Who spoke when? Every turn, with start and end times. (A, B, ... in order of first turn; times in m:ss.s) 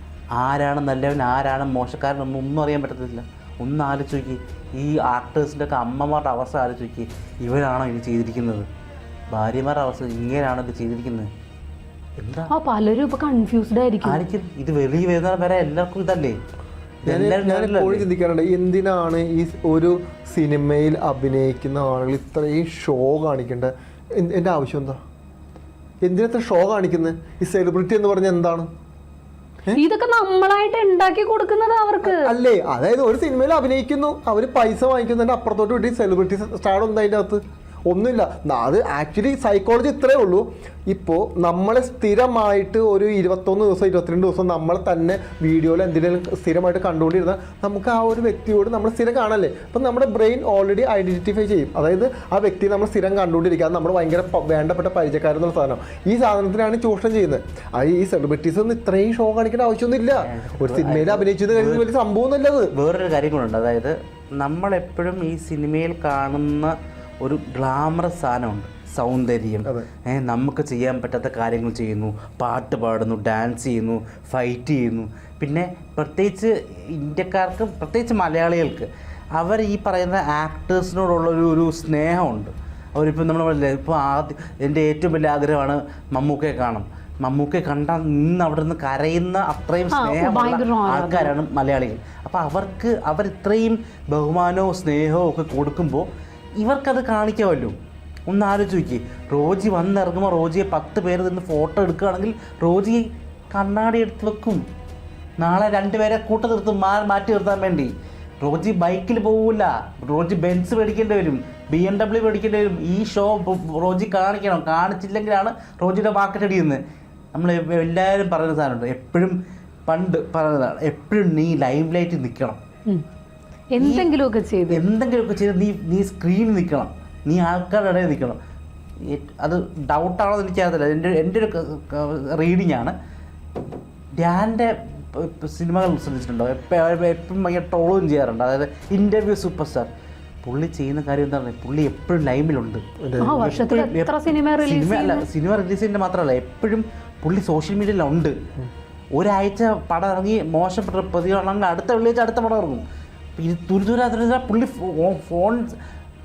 0:00.4-0:08.7 A
0:09.3-0:11.3 A
0:12.2-0:12.5 A
0:12.5-0:14.2 B
0:14.0-0:16.4 A
0:17.0-0:18.1 A
0:17.0-0:25.0 C
0:26.0-0:28.7 C
0:29.7-0:32.3 B
0:32.0-1:02.7 C
1:00.2-1:01.8 A
1:02.7-1:36.1 A
1:29.9-1:31.3 B
1:36.6-1:37.7 A
1:38.3-1:44.6 A
1:45.4-1:56.8 A
1:57.3-1:59.4 A
1:59.9-2:02.6 A
2:03.7-2:04.8 B
2:03.8-2:04.1 A
2:04.7-2:08.4 A
2:09.0-2:12.9 A
2:14.2-2:19.9 A
2:20.4-2:22.8 A
2:23.0-2:23.6 C
2:23.2-2:25.2 B
2:23.4-2:28.3 A
2:29.2-2:32.8 A
2:33.4-2:35.7 A